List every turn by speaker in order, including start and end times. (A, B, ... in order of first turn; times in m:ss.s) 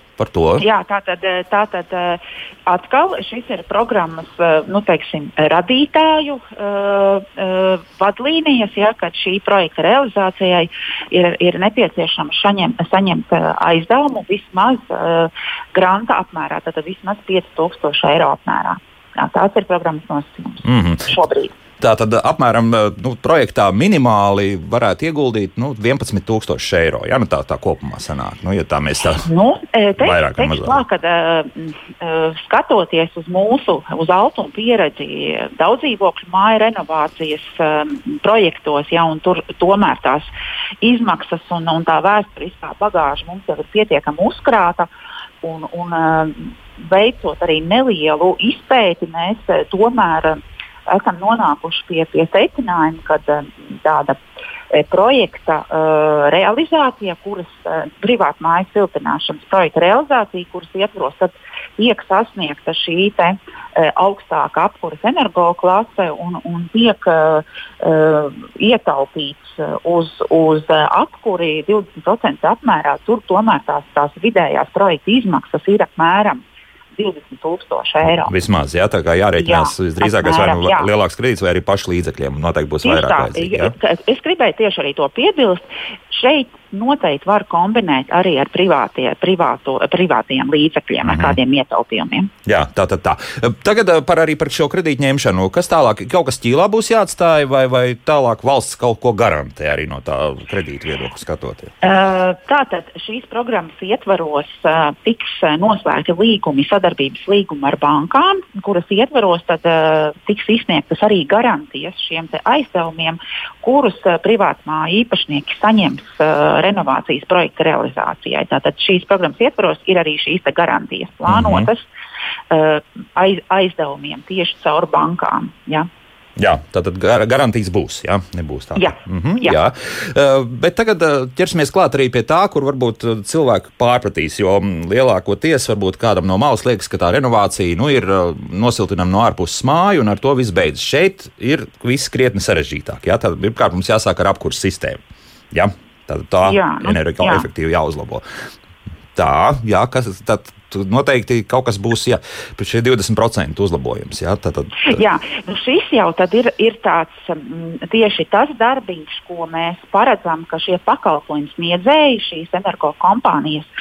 0:00.2-0:00.6 A
0:00.6-0:21.5 B
0:20.6-0:21.1 A
0:21.8-0:29.3 A
0:29.2-0:40.3 B
0:30.0-0:30.8 A
0:40.8-0:44.9 B
0:45.4-0:54.2 B
0:54.7-1:16.4 B
1:17.0-1:18.3 B
1:18.0-1:23.7 A
1:19.4-1:20.9 B
1:22.8-1:32.3 B
1:31.0-1:31.4 A
1:32.4-1:41.7 A
1:41.8-2:01.9 B
2:01.3-2:01.7 A
2:02.5-2:05.9 B
2:06.4-2:25.0 A
2:08.8-2:09.6 B
2:25.5-2:28.2 A
2:26.4-2:27.5 B
2:29.1-2:35.0 A
2:34.8-2:43.7 B